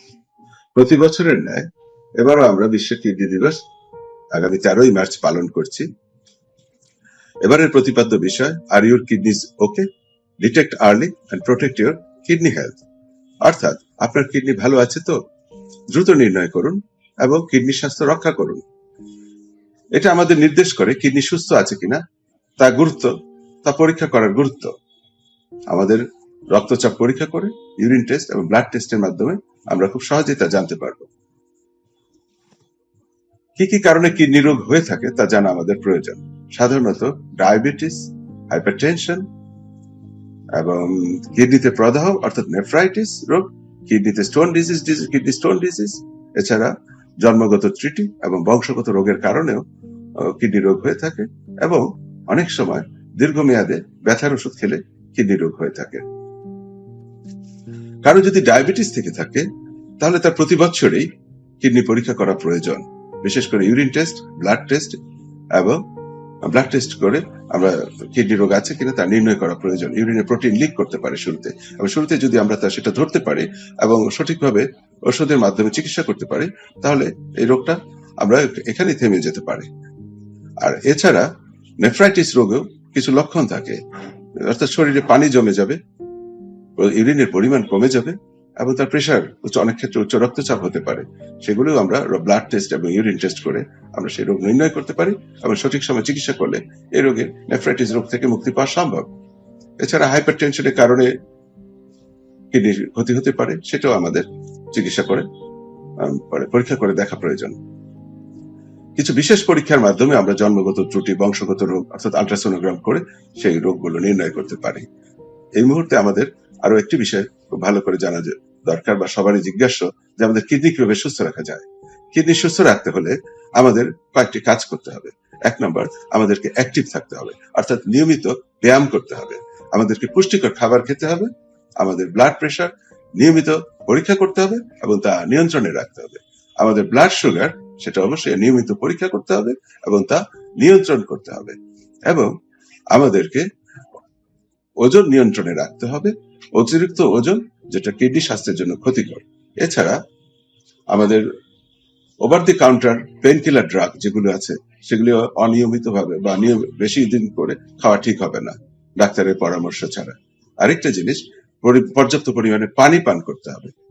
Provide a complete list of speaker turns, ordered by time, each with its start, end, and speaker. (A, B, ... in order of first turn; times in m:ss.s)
0:00.7-0:01.7 A
0:02.2-0:03.6 A
0:04.3-0:05.9 A
0:07.4-0:09.9 A
0:10.4-0:12.8 A
0:13.4-0:15.2 A
0:15.9-0:18.6 A
0:19.9-0:22.0 A
0:22.6-0:23.1 A
0:23.6-0:24.7 A
0:25.7-0:31.1 A
0:33.6-0:39.2 A
0:40.5-0:49.6 A
0:50.2-0:56.0 A
0:58.0-0:59.5 A
1:00.0-1:01.1 A
1:01.6-1:05.0 A
1:05.5-1:05.8 A
1:06.4-1:19.7 A
1:20.6-1:21.3 A
1:21.8-1:23.8 A
1:24.4-1:25.8 A
1:26.8-1:39.1 A
1:39.8-1:41.1 A
1:42.5-1:45.3 A
1:46.0-1:47.6 A
1:49.0-1:54.8 A
1:55.6-2:22.3 A
2:22.9-2:23.5 A
2:24.8-2:30.0 A
2:30.9-2:31.3 A
2:32.2-2:43.7 A